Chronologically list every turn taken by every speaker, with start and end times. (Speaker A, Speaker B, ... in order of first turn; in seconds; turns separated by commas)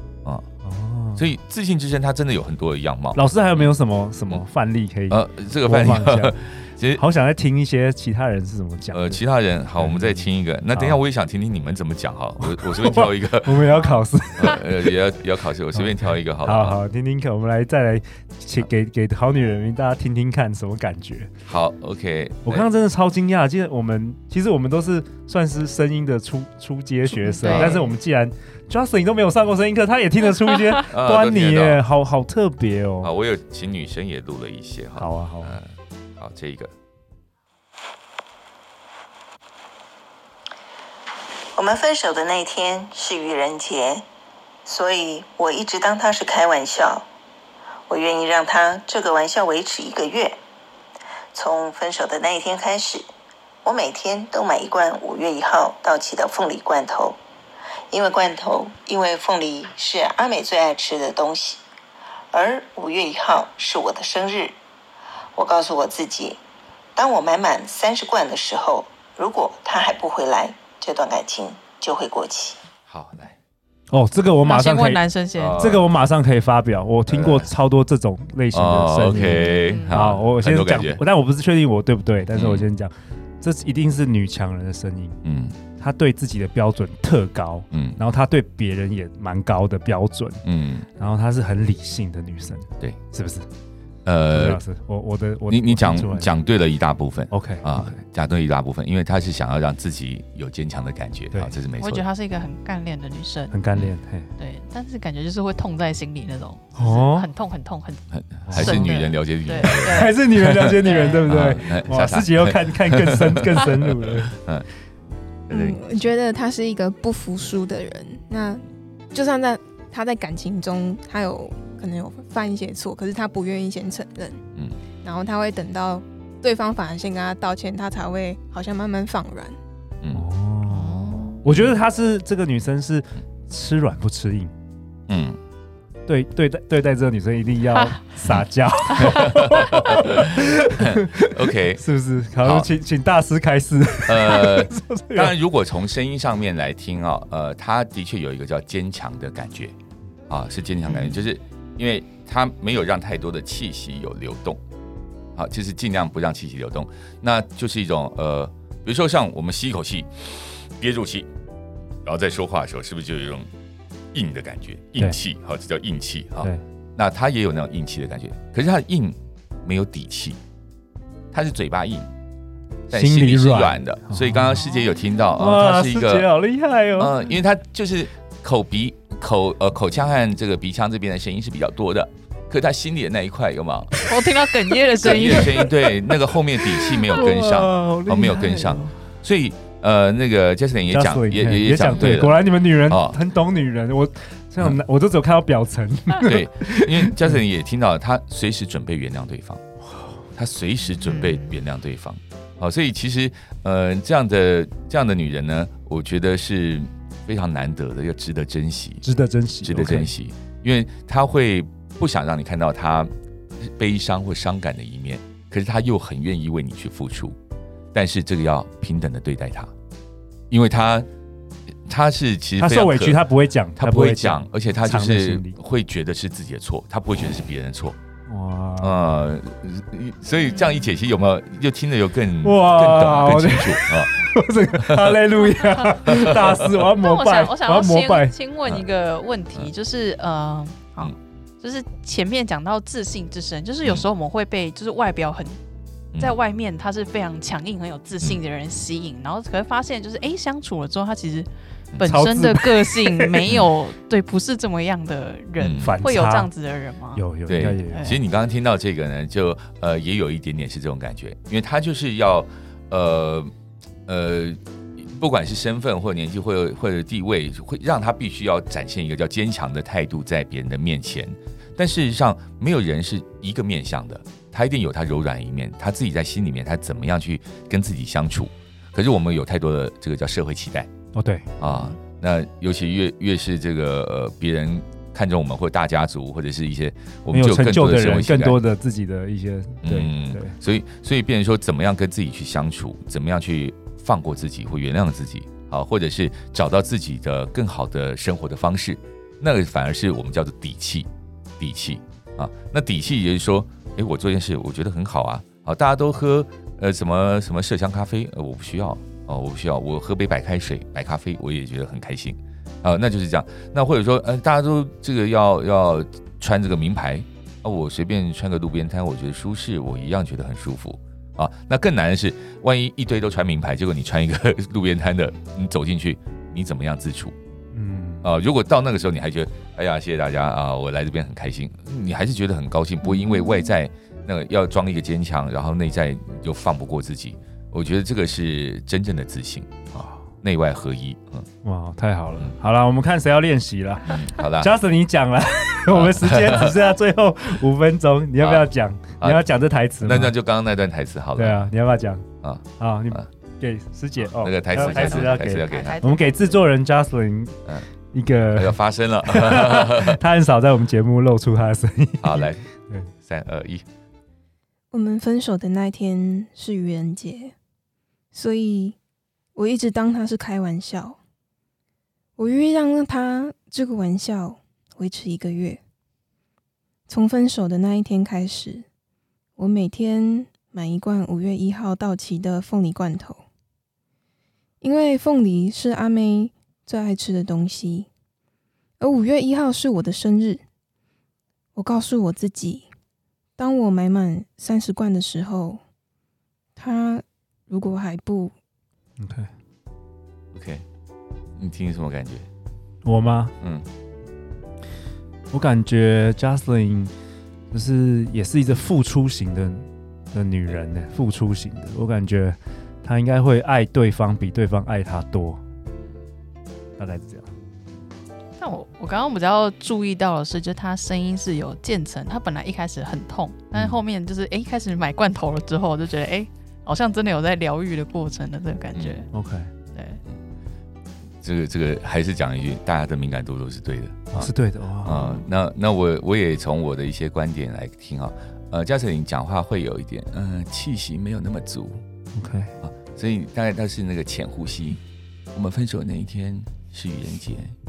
Speaker A: 0.6-1.2, Speaker B: 1.2-3.2, Speaker A: 3.1-6.4, Speaker B: 5.1-7.0, Speaker A: 7.0-9.2, Speaker B: 8.9-13.8, Speaker A: 9.8-10.2, Speaker A: 10.7-11.0, Speaker A: 12.4-14.6, Speaker B: 14.4-16.8, Speaker A: 15.7-21.3, Speaker B: 21.4-22.6, Speaker A: 22.4-33.1, Speaker C: 27.2-27.9, Speaker B: 27.5-27.8, Speaker B: 30.9-31.8, Speaker B: 33.0-36.7, Speaker A: 35.0-35.6, Speaker D: 41.5-44.0, Speaker D: 44.6-47.1, Speaker D: 47.9-50.4, Speaker D: 51.3-53.1, Speaker D: 53.6-57.2, Speaker D: 57.9-61.6, Speaker D: 62.3-64.6, Speaker D: 65.3-66.4, Speaker D: 67.0-72.6, Speaker B: 72.9-73.4, Speaker A: 73.9-75.0, Speaker C: 74.4-75.7, Speaker B: 75.3-75.9, Speaker A: 75.5-85.2, Speaker B: 77.1-77.5, Speaker B: 78.5-81.0, Speaker C: 79.2-80.1, Speaker B: 82.3-82.7, Speaker B: 85.2-85.6, Speaker A: 85.8-90.4, Speaker B: 87.7-88.0, Speaker B: 90.4-90.9, Speaker A: 91.0-93.5, Speaker B: 94.0-94.6, Speaker A: 94.3-96.3, Speaker B: 95.5-102.0, Speaker A: 97.3-98.0, Speaker C: 101.8-103.6, Speaker A: 103.5-104.3, Speaker C: 104.4-111.3, Speaker A: 106.7-107.3, Speaker B: 108.1-114.7, Speaker A: 108.5-108.9, Speaker A: 109.8-114.3, Speaker B: 115.5-115.8, Speaker E: 115.5-124.4, Speaker E: 125.0-129.6, Speaker B: 130.0-130.2, Speaker A: 130.1-134.5, Speaker C: 130.7-131.4, Speaker B: 135.1-135.4, Speaker A: 136.1-145.3, Speaker B: 138.2-141.8, Speaker B: 142.4-142.7, Speaker B: 144.1-149.7, Speaker B: 150.3-154.6, Speaker C: 150.8-151.2, Speaker B: 155.3-161.3, Speaker B: 162.0-163.5, Speaker B: 164.1-170.4, Speaker B: 171.3-172.1, Speaker A: 172.9-174.6, Speaker B: 172.9-176.3, Speaker C: 174.6-174.9, Speaker A: 175.4-177.1, Speaker B: 177.0-183.9, Speaker C: 184.0-185.7, Speaker B: 185.0-193.2, Speaker A: 185.2-185.5, Speaker A: 186.7-188.9, Speaker A: 190.9-197.1, Speaker B: 196.2-199.6, Speaker B: 200.3-209.0, Speaker C: 201.0-201.5, Speaker A: 209.0-210.1, Speaker B: 209.6-217.3, Speaker B: 217.9-219.7, Speaker B: 220.5-221.1, Speaker B: 221.9-223.2, Speaker A: 222.6-225.6, Speaker B: 223.8-228.0, Speaker A: 228.3-228.9, Speaker B: 228.8-234.1, Speaker C: 230.4-230.9, Speaker A: 232.4-238.3, Speaker B: 234.7-235.3, Speaker B: 236.0-236.6, Speaker C: 237.0-245.6, Speaker C: 246.2-257.2, Speaker A: 252.1-253.4, Speaker B: 255.6-256.0, Speaker A: 255.8-256.5, Speaker A: 257.1-258.1, Speaker B: 257.5-263.5, Speaker C: 257.9-258.2, Speaker B: 264.1-280.9, Speaker A: 281.1-281.5, Speaker B: 281.6-288.6, Speaker A: 287.3-290.5, Speaker B: 289.8-327.3, Speaker A: 327.7-328.3, Speaker B: 328.2-341.4, Speaker A: 341.6-350.3, Speaker B: 344.1-344.7, Speaker B: 345.9-346.8, Speaker B: 348.4-348.7, Speaker B: 349.2-349.5, Speaker B: 350.0-351.7, Speaker A: 351.4-352.2, Speaker B: 352.4-353.2, Speaker A: 352.8-357.6, Speaker B: 354.4-356.0, Speaker C: 354.7-356.6, Speaker A: 358.1-363.1, Speaker B: 358.5-360.2, Speaker B: 362.2-362.6, Speaker B: 363.2-363.8, Speaker E: 364.9-367.5, Speaker E: 368.3-369.0, Speaker E: 369.6-371.2, Speaker E: 372.4-375.8, Speaker E: 377.1-378.8, Speaker E: 379.6-383.4, Speaker E: 384.8-388.1, Speaker E: 389.0-390.6, Speaker E: 391.7-392.9, Speaker E: 393.6-395.8, Speaker E: 396.8-398.5, Speaker A: 399.2-399.5, Speaker B: 400.5-400.8, Speaker B: 401.6-402.5, Speaker A: 403.0-403.5, Speaker A: 405.5-407.1, Speaker A: 407.7-415.6, Speaker A: 417.0-417.5, Speaker C: 418.6-429.3, Speaker B: 428.9-429.2, Speaker A: 429.3-429.7, Speaker C: 429.9-430.2, Speaker B: 431.4-434.5, Speaker A: 434.3-435.4, Speaker B: 435.0-442.0, Speaker A: 442.3-442.7, Speaker B: 442.8-445.0, Speaker B: 445.5-447.7